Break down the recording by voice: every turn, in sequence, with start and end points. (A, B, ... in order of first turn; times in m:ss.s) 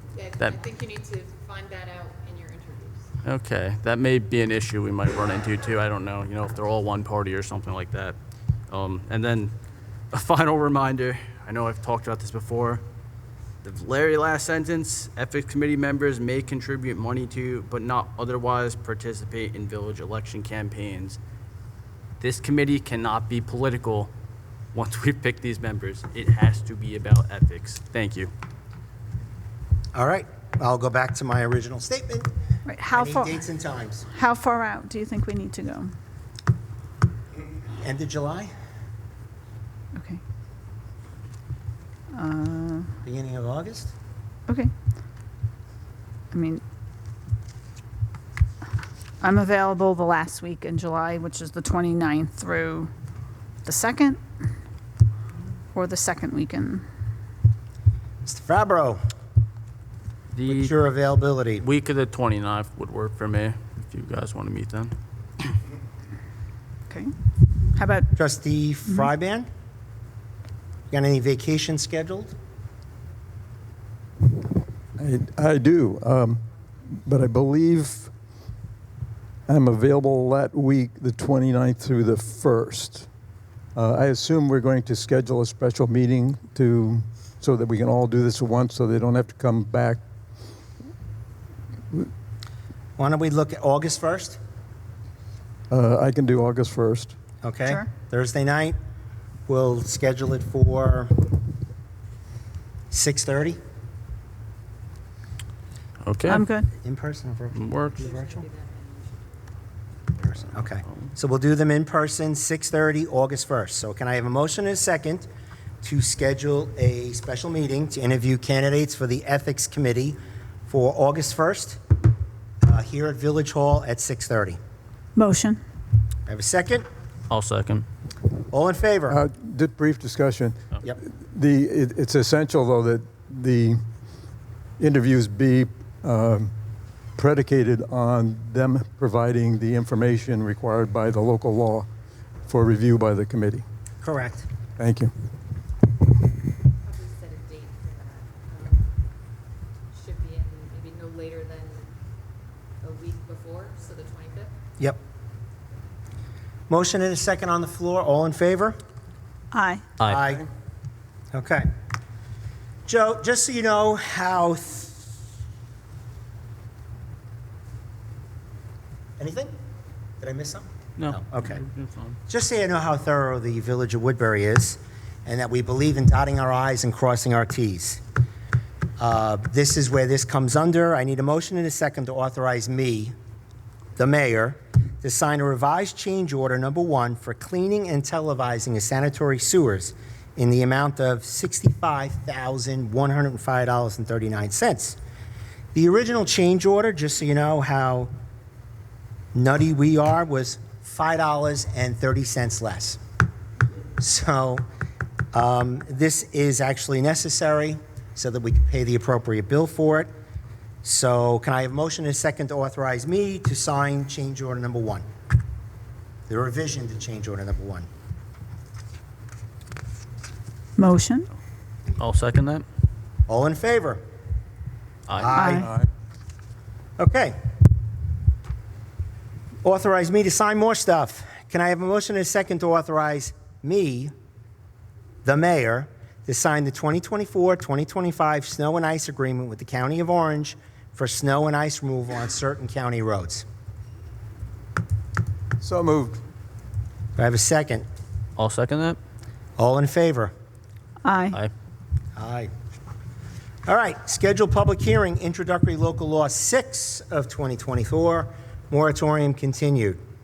0:00.1-0:03.1 A
0:03.2-0:08.2 B
0:08.7-0:09.5 B
0:10.1-0:12.8 B
0:13.6-0:21.2 B
0:22.2-0:24.1 B
0:24.7-0:28.3 B
0:29.9-0:32.3 C
0:32.7-0:33.4 D
0:32.9-0:34.0 C
0:34.1-0:35.9 D
0:37.8-0:38.5 C
0:42.1-0:43.0 D
0:43.0-0:43.9 C
0:46.3-0:46.6 D
0:49.2-0:52.9 D
0:53.6-0:54.2 D
0:55.8-0:56.8 D
0:58.2-0:59.0 C
1:00.4-1:00.7 B
1:00.5-1:01.6 C
1:01.6-1:05.0 B
1:07.7-1:08.1 D
1:08.2-1:09.5 C
1:10.9-1:12.3 C
1:15.0-1:18.1 E
1:19.5-1:23.1 E
1:23.8-1:30.0 E
1:33.0-1:34.4 C
1:35.7-1:37.2 E
1:37.4-1:38.8 C
1:39.5-1:41.1 C
1:42.9-1:43.6 C
1:46.0-1:46.4 B
1:46.3-1:46.7 D
1:46.8-1:48.5 C
1:47.6-1:48.0 B
1:47.9-1:49.6 A
1:50.2-1:55.3 C
1:55.8-2:01.8 C
2:02.6-2:04.6 C
2:05.2-2:05.6 D
2:06.3-2:06.9 C
2:07.3-2:07.9 B
2:08.5-2:09.2 C
2:09.1-2:13.8 E
2:14.8-2:16.5 E
2:17.2-2:21.9 E
2:22.5-2:23.6 E
2:24.0-2:24.5 C
2:24.8-2:25.1 E
2:26.7-2:28.9 A
2:29.9-2:31.9 A
2:32.8-2:34.5 A
2:36.7-2:38.8 C
2:39.5-2:39.9 D
2:40.0-2:40.5 C
2:41.3-2:41.7 C
2:42.9-2:45.1 C
2:49.2-2:49.5 C
2:50.2-2:51.6 C
2:51.0-2:52.2 B
2:52.3-2:58.0 C
2:59.0-3:03.1 C
3:04.0-3:15.0 C
3:15.7-3:18.1 C
3:19.3-3:23.0 C
3:24.0-3:24.6 C
3:25.3-3:30.1 C
3:30.8-3:35.0 C
3:36.3-3:37.9 C
3:40.8-3:41.3 D
3:42.0-3:42.6 B
3:43.3-3:44.0 C
3:45.1-3:45.3 B
3:45.1-3:45.7 C
3:45.3-3:45.7 D
3:47.0-3:47.4 C
3:49.6-3:54.1 C
3:55.2-4:03.4 C
4:05.6-4:06.2 E
4:07.2-4:07.8 C
4:08.4-4:09.0 B
4:09.6-4:10.3 C
4:11.0-4:11.4 D
4:12.2-4:12.5 C
4:13.7-4:20.0 C